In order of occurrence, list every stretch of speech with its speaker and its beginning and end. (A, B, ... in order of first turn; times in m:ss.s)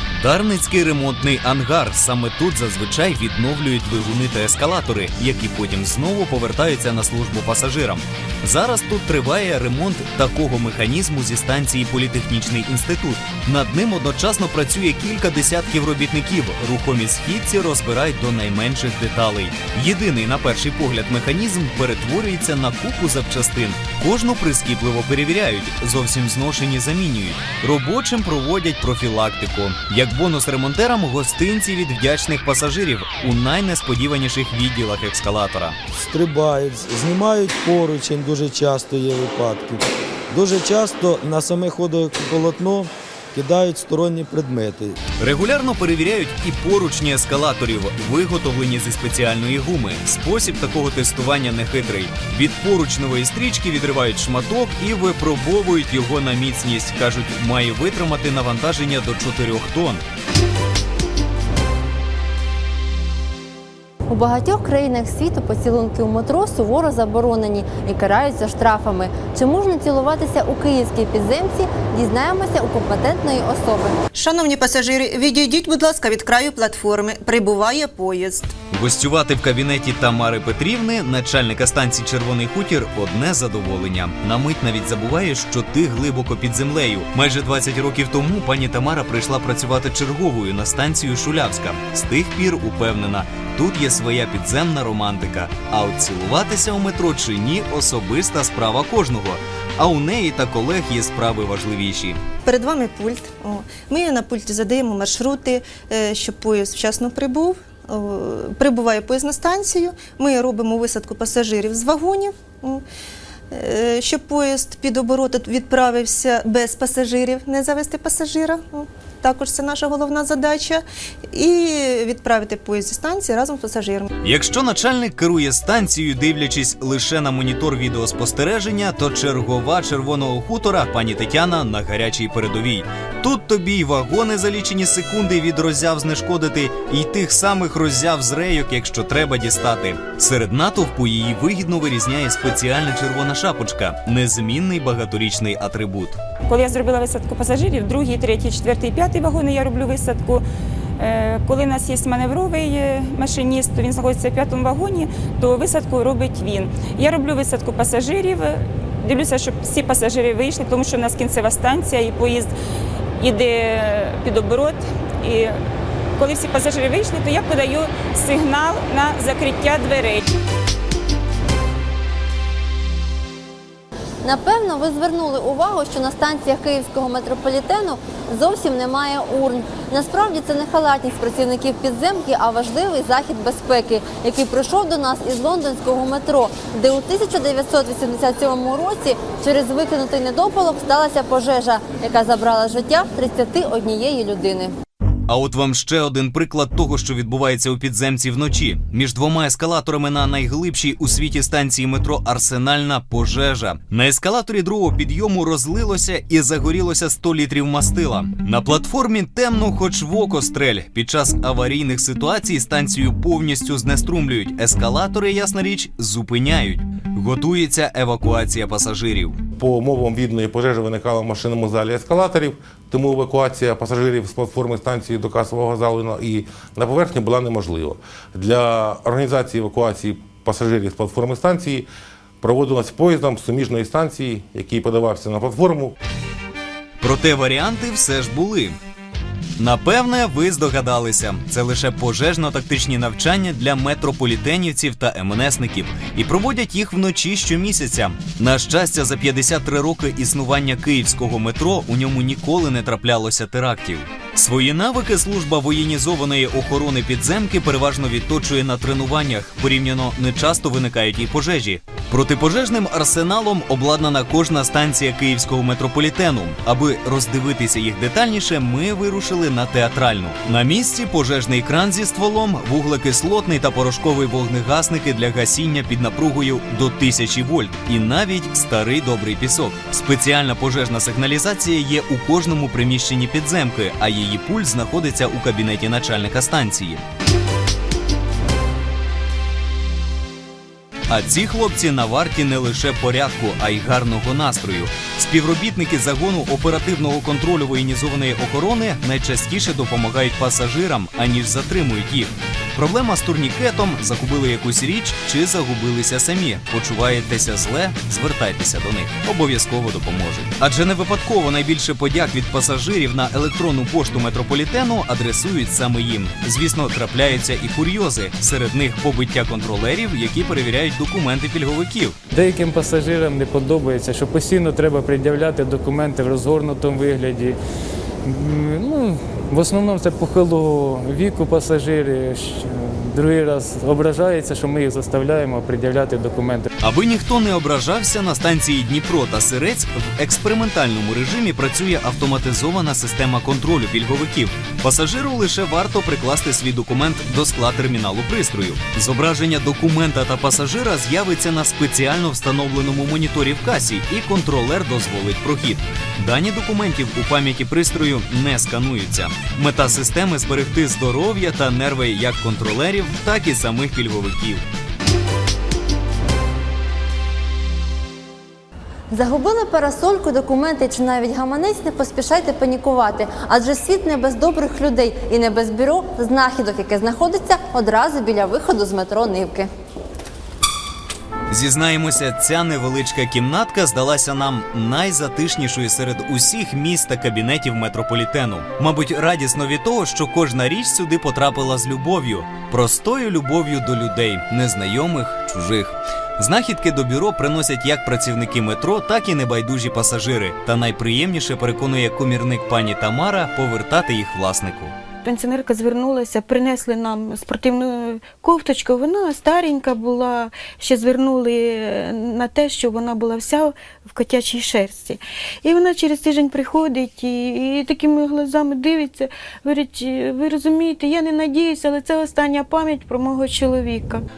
0:00.2-0:35.8 A
0:35.9-0:45.0 B
0:45.2-1:00.0 A
1:04.1-1:14.0 C
1:14.1-1:18.5 D
1:18.7-1:42.2 A
1:42.4-1:52.8 D
1:53.5-2:04.0 D
2:04.2-2:26.2 A
2:26.5-2:30.4 E
2:31.0-2:42.5 E
2:43.2-2:45.6 E
2:46.2-2:50.2 E
2:54.2-3:14.7 C
3:15.3-3:39.4 A
3:39.6-3:51.8 F
3:52.4-3:55.9 F
3:57.0-3:58.8 A
3:59.6-4:47.0 A
4:51.1-5:22.2 A
5:22.3-5:27.6 G
5:28.2-5:36.7 G
5:36.8-6:04.6 A
6:09.1-6:19.7 C
6:21.5-6:44.9 A
6:45.2-7:04.2 H